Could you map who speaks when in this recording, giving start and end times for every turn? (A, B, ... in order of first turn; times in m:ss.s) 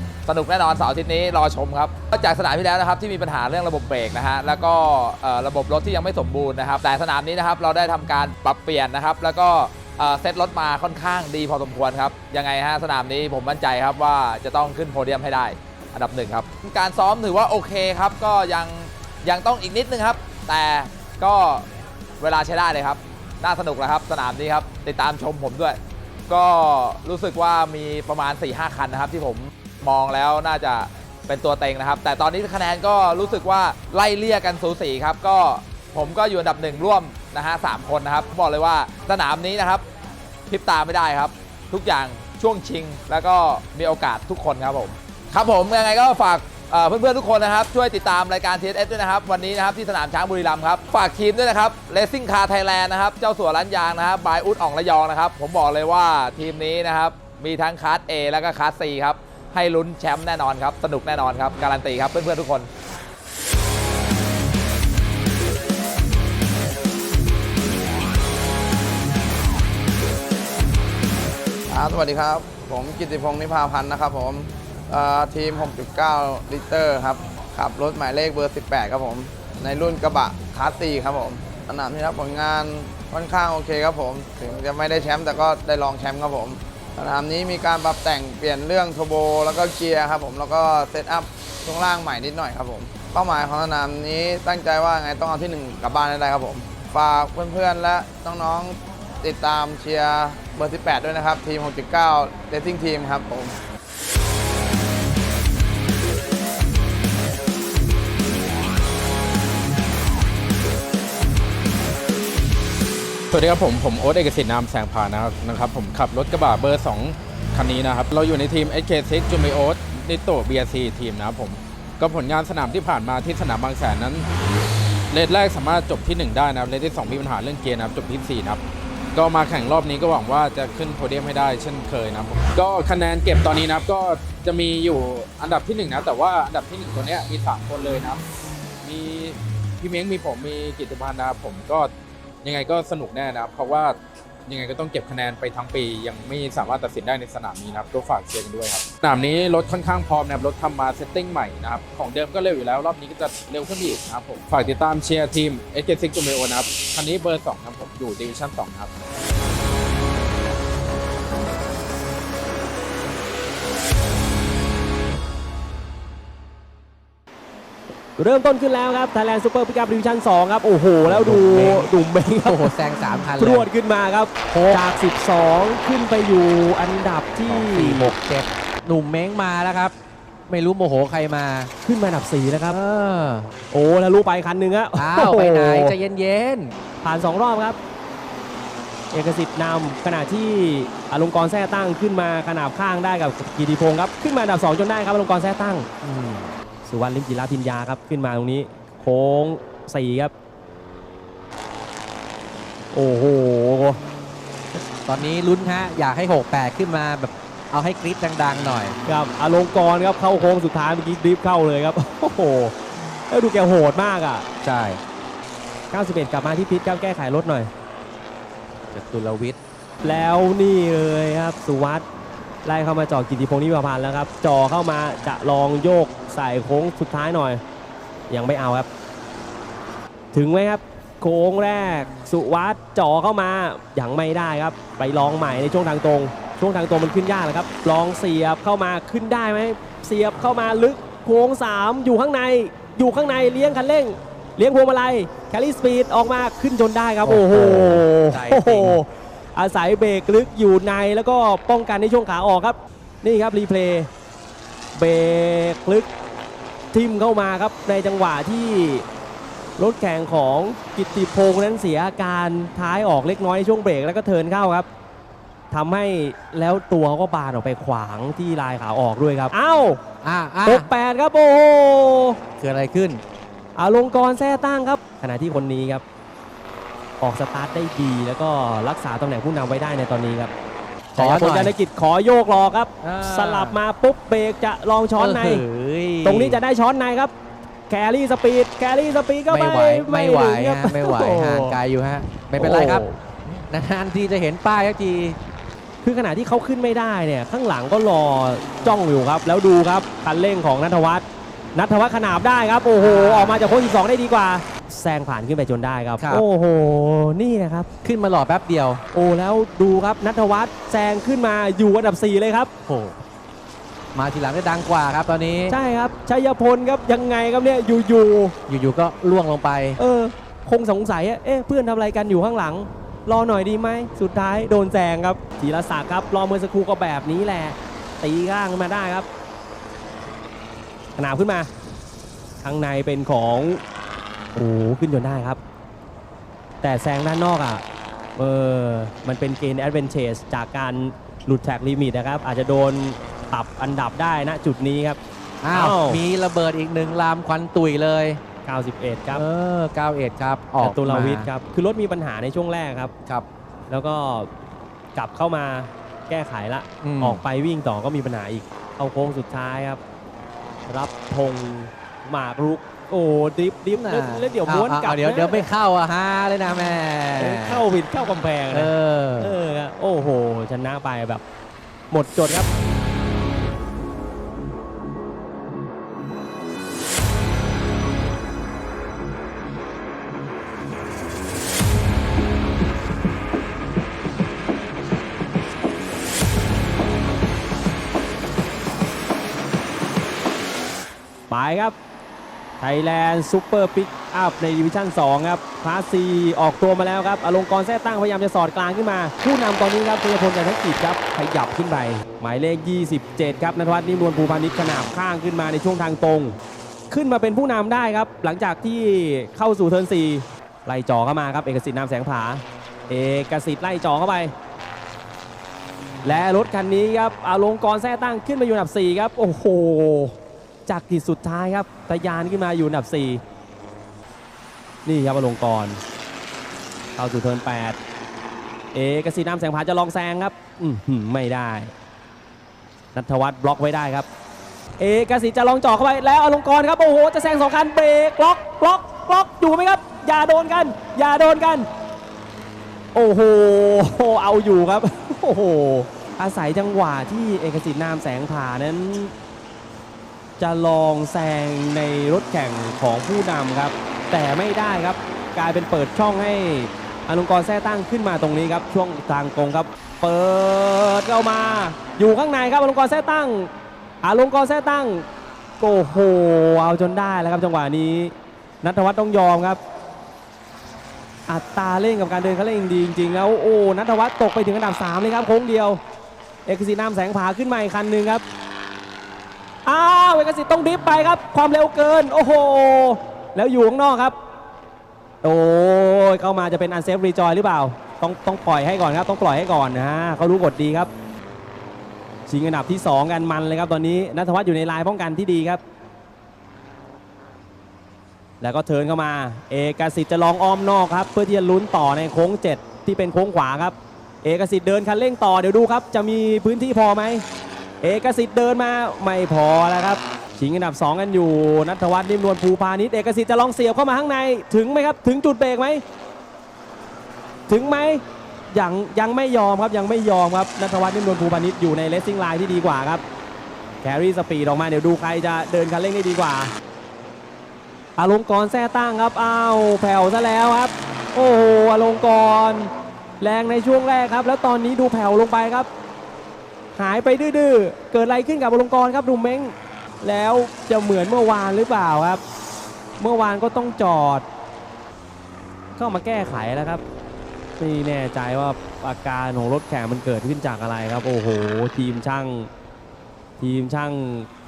0:00.3-0:21.7 A
0:22.2-0:39.8 A
0:40.5-1:02.7 A
1:11.7-1:43.6 B
1:53.3-2:04.3 C
2:05.1-2:08.6 C
2:09.2-2:18.2 C
2:18.8-2:21.9 C
2:22.4-2:24.0 C
2:24.5-2:38.9 C
2:48.2-2:52.7 D
2:51.0-2:53.7 E
2:53.3-2:58.1 D
2:54.5-2:54.8 E
2:57.5-2:59.9 E
3:00.5-3:01.7 E
3:01.8-3:02.8 D
3:02.7-3:03.5 E
3:03.7-3:05.9 D
3:05.0-3:06.8 E
3:07.0-3:07.8 D
3:09.1-3:15.9 D
3:16.0-3:16.5 E
3:16.8-3:20.3 D
3:22.9-3:24.0 D
3:25.1-3:29.0 E
3:29.1-3:34.4 D
3:34.6-3:35.0 E
3:35.9-3:37.7 D
3:38.9-3:39.6 E
3:40.0-3:42.0 D
3:42.6-3:47.6 D
3:48.3-3:48.9 D
3:50.3-4:14.1 D
4:07.2-4:09.0 E
4:15.0-4:16.1 D
4:16.9-4:19.0 D
4:19.8-4:24.9 D
4:25.7-4:30.0 D
4:30.2-4:30.9 E
4:30.6-4:32.4 D
4:32.6-4:33.2 E
4:33.8-4:36.0 D
4:37.2-4:40.5 D
4:41.2-4:41.7 E
4:41.2-4:45.6 D
4:43.0-4:43.8 E
4:45.2-4:46.6 E
4:46.2-4:47.3 D
4:47.9-4:51.8 D
4:49.5-4:55.4 E
4:52.6-4:53.2 D
4:56.0-5:01.2 D
5:01.8-5:07.9 D
5:03.0-5:03.7 E
5:06.2-5:06.4 E
5:08.0-5:09.0 E
5:09.1-5:12.7 D
5:12.9-5:13.2 E
5:14.2-5:15.8 E
5:15.7-5:18.6 D
5:18.7-5:20.0 E
5:20.0-5:29.3 D
5:31.2-5:31.7 D
5:32.6-5:33.8 D
5:34.6-5:35.6 D
5:36.8-5:37.8 D
5:38.4-5:45.2 D
5:45.6-5:48.4 E
5:45.7-5:46.2 D
5:48.6-5:49.4 D
5:49.3-5:51.5 E
5:50.8-5:53.1 D
5:53.9-5:54.5 D
5:55.2-6:00.0 D
5:57.0-5:57.4 E
6:00.9-6:05.7 D
6:03.9-6:07.8 E
6:07.4-6:11.4 D
6:08.7-6:09.6 E
6:12.1-6:12.7 D
6:31.5-6:32.0 D
6:32.8-6:46.6 D
6:47.1-6:54.5 D
6:56.2-7:00.4 D
7:00.9-7:03.4 D
7:05.0-7:06.0 D
7:07.2-7:08.0 D
7:08.9-7:11.9 D
7:13.2-7:14.3 D
7:15.0-7:21.9 D
7:23.1-7:29.3 D
7:30.6-7:43.7 D
7:44.2-7:45.3 D
7:45.8-7:49.8 D
7:51.5-7:56.0 D
7:56.6-7:58.4 D
7:59.8-8:04.4 D
8:05.4-8:11.1 D
8:12.5-8:15.8 D
8:18.6-8:27.4 D
8:28.0-8:36.0 D
8:37.7-8:43.2 D
8:44.0-8:46.7 D
8:48.2-8:55.9 D
8:57.0-9:02.4 D
9:03.2-9:04.5 D
9:06.0-9:07.0 D
9:07.8-9:12.7 D
9:13.6-9:14.5 D